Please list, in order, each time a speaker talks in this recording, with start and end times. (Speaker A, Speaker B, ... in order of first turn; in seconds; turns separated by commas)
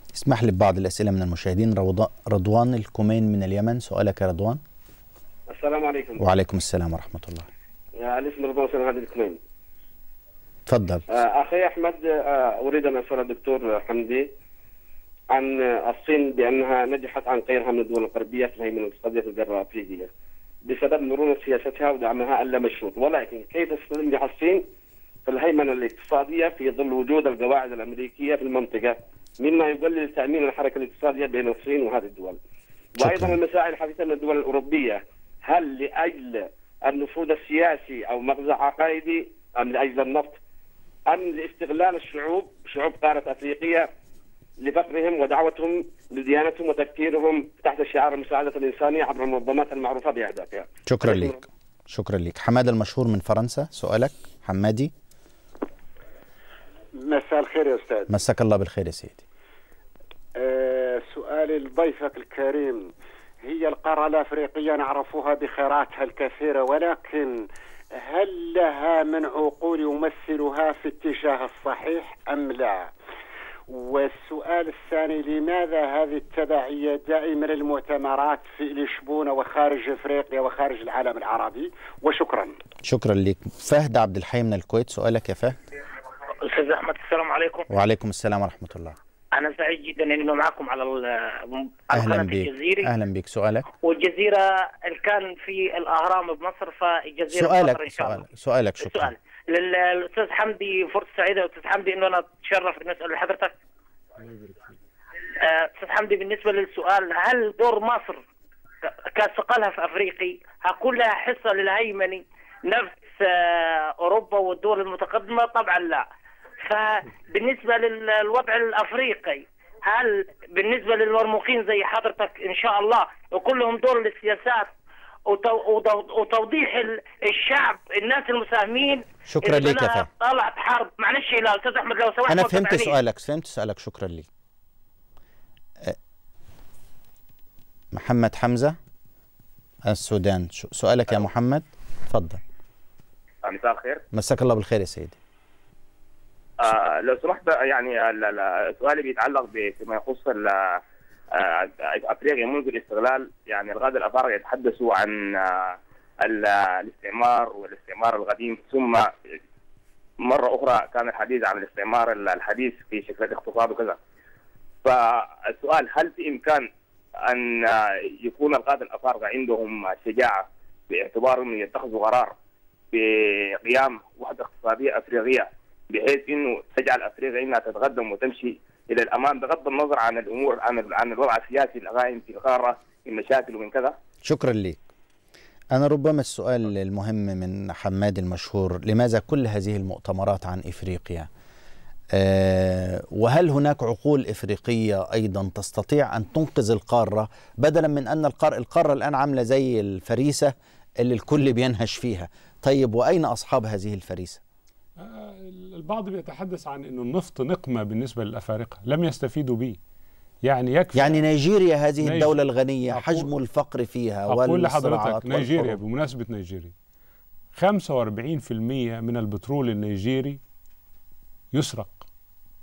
Speaker A: 0.1-4.6, Speaker B: 5.5-6.2, Speaker A: 6.2-7.5, Speaker B: 8.0-9.4, Speaker A: 10.7-11.0, Speaker B: 11.1-14.3, Speaker B: 15.3-20.1, Speaker B: 20.6-24.6, Speaker B: 25.2-32.4, Speaker B: 32.9-40.4, Speaker A: 33.0-33.4, Speaker B: 41.1-43.9, Speaker B: 44.6-51.4, Speaker A: 50.9-54.9, Speaker C: 57.0-58.1, Speaker A: 58.1-59.2, Speaker C: 60.4-62.9, Speaker C: 63.4-67.4, Speaker C: 68.0-72.9, Speaker C: 73.7-82.5, Speaker A: 82.8-85.6, Speaker D: 86.4-87.7, Speaker A: 87.7-89.0, Speaker D: 89.3-92.9, Speaker A: 91.9-93.7, Speaker D: 93.8-98.2, Speaker A: 97.3-99.1, Speaker D: 98.8-103.5, Speaker D: 105.3-108.2, Speaker D: 109.1-116.0, Speaker D: 116.7-124.7, Speaker D: 125.3-132.9, Speaker A: 129.3-130.1, Speaker A: 132.3-134.3, Speaker A: 137.9-138.8, Speaker A: 139.8-142.4, Speaker E: 143.4-144.0, Speaker A: 144.1-145.2, Speaker E: 146.6-150.8, Speaker E: 151.3-159.1, Speaker E: 160.2-164.0, Speaker E: 164.8-166.7, Speaker E: 167.2-172.3, Speaker E: 172.9-183.9, Speaker A: 184.2-184.8, Speaker A: 185.7-191.3, Speaker A: 192.1-204.4, Speaker F: 205.0-209.8, Speaker F: 210.4-211.2, Speaker A: 210.9-215.8, Speaker F: 212.0-212.4, Speaker F: 212.9-213.3, Speaker F: 214.3-216.7, Speaker F: 217.5-220.4, Speaker F: 221.5-222.1